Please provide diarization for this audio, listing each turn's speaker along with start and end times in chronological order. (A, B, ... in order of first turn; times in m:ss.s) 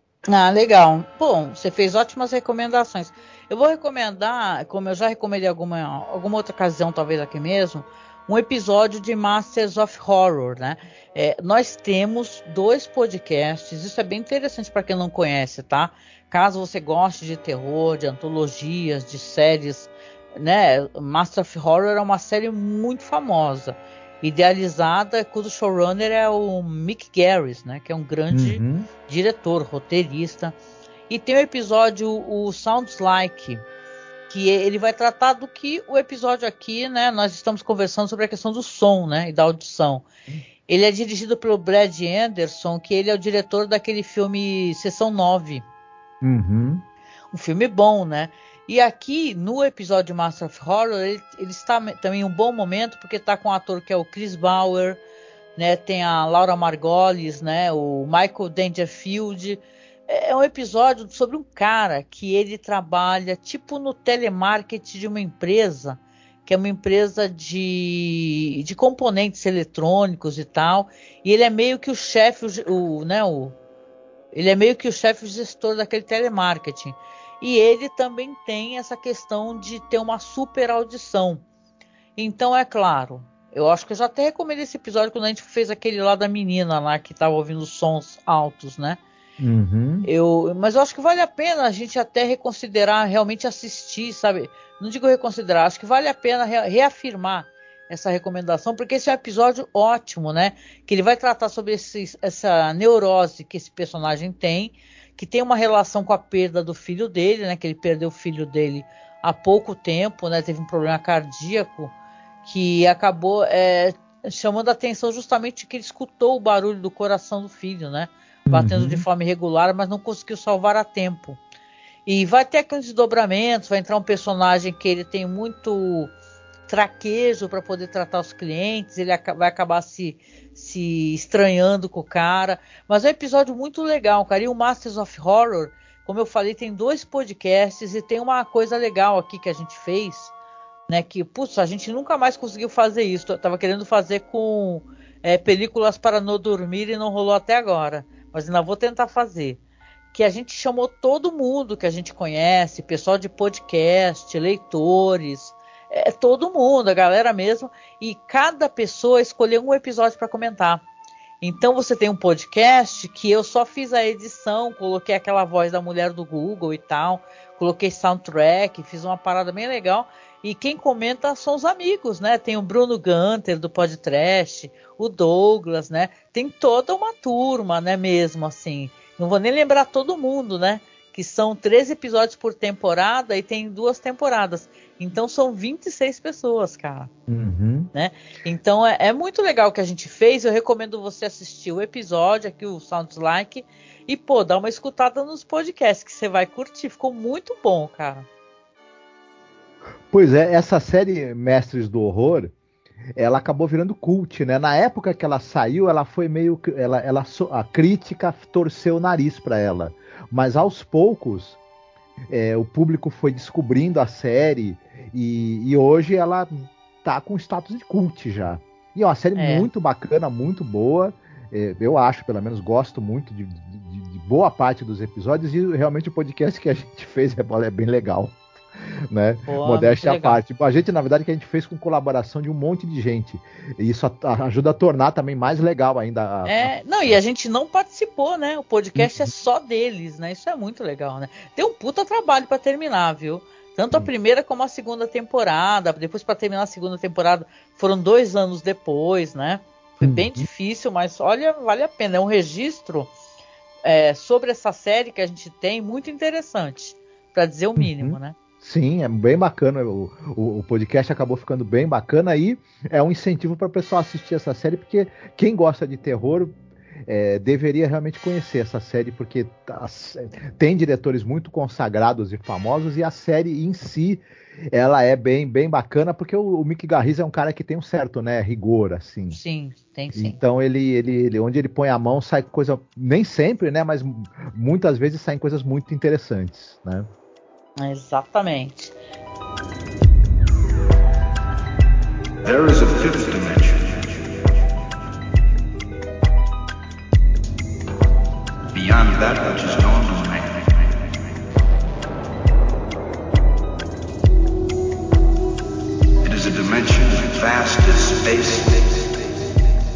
0:00.3-0:30.6 A
0:28.3-0:28.9 B
0:31.1-0:33.6 A
0:34.3-0:40.0 A
0:40.7-0:45.6 A
0:46.2-0:46.8 B
0:47.3-0:55.0 A
0:55.6-1:13.6 A
1:14.3-1:21.4 A
1:22.2-1:29.0 A
1:29.4-1:30.1 B
1:30.0-1:51.9 A
1:52.4-2:01.4 A
1:58.5-1:59.0 B
2:02.1-2:06.1 A
2:06.7-2:20.3 A
2:20.9-2:29.6 A
2:30.1-2:40.8 A
2:41.4-3:07.1 A
3:07.3-3:07.9 B
3:07.9-3:18.3 A
3:20.1-3:22.5 B
3:23.2-3:31.6 B
3:32.3-3:48.4 B
3:39.4-3:39.7 A
3:49.1-3:57.2 B
3:49.5-3:50.4 A
3:56.4-4:13.1 A
3:59.0-3:59.3 B
4:10.0-4:10.5 B
4:13.8-4:18.4 A
4:17.8-4:26.6 B
4:27.1-4:39.4 B
4:39.3-4:40.4 A
4:40.1-4:47.1 B
4:47.8-4:49.0 A
4:52.4-4:54.4 C
4:58.7-5:01.0 C
5:06.2-5:09.1 C